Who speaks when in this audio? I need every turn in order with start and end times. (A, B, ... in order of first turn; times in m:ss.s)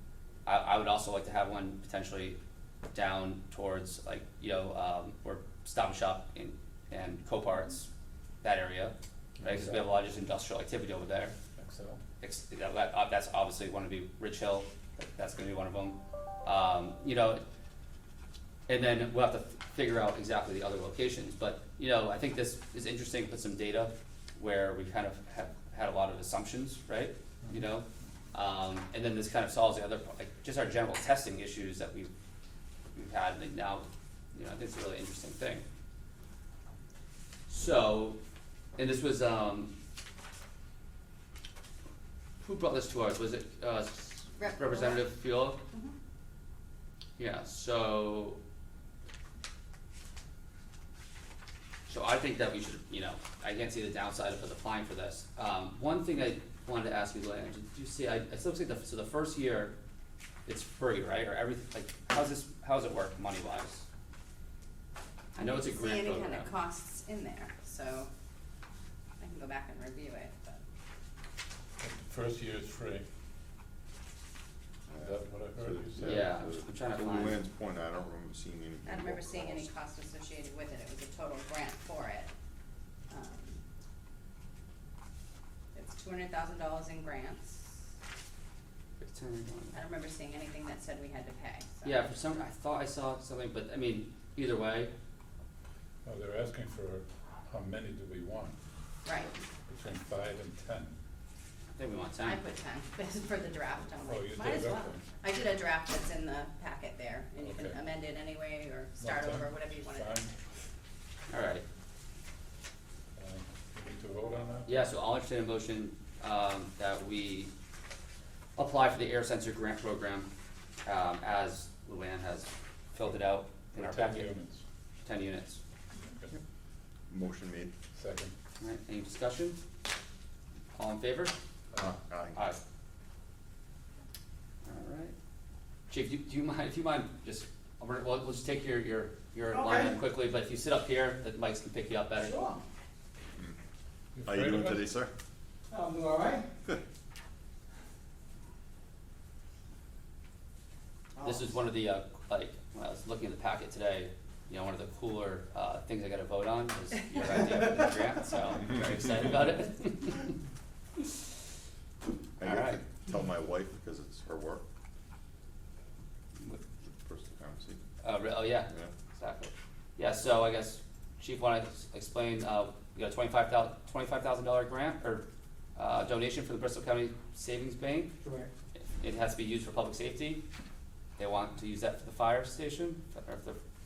0:00.4-0:02.4 A
0:02.9-0:07.9 A
0:08.4-0:11.3 A
0:09.4-0:09.8 B
0:11.6-0:12.0 B
0:12.2-0:17.4 A
0:18.7-0:32.1 A
0:32.9-0:35.6 A
0:37.5-0:38.2 A
0:38.8-0:39.7 A
0:42.4-0:45.6 A
0:44.4-0:45.1 C
0:47.2-0:48.4 A
0:51.9-0:59.8 A
1:00.4-1:03.8 A
1:05.4-1:06.5 A
1:05.4-1:08.1 C
1:09.2-1:10.6 C
1:11.8-1:13.0 B
1:14.9-1:19.7 D
1:14.9-1:16.4 B
1:16.0-1:17.4 A
1:18.8-1:22.3 C
1:23.1-1:23.6 C
1:25.7-1:27.7 C
1:29.0-1:29.8 A
1:29.7-1:32.0 C
1:31.8-1:34.9 A
1:36.0-1:38.5 B
1:39.0-1:39.3 C
1:39.7-1:40.9 B
1:41.7-1:42.4 A
1:42.2-1:50.2 C
1:44.0-1:45.0 B
1:47.4-1:47.8 B
1:49.0-1:50.3 B
1:51.3-1:51.6 A
1:53.2-1:54.7 B
1:54.6-1:57.5 A
1:58.6-2:00.3 A
2:00.8-2:04.3 A
2:03.7-2:04.6 B
2:05.0-2:05.6 A
2:06.0-2:06.3 B
2:07.1-2:07.7 D
2:07.9-2:08.3 B
2:08.6-2:09.6 A
2:10.8-2:11.3 A
2:11.8-2:12.4 D
2:14.6-2:15.1 A
2:15.9-2:22.5 A
2:19.5-2:20.0 E
2:22.2-2:22.6 E
2:24.1-2:25.0 B
2:24.2-2:25.1 D
2:25.7-2:26.5 E
2:31.1-2:31.5 E
2:31.2-2:40.3 A
2:42.4-2:44.6 D
2:42.4-2:42.8 A
2:46.8-2:47.8 D
2:48.0-2:58.1 A
2:58.2-2:58.5 E
2:58.8-3:00.4 A
3:01.2-3:03.6 A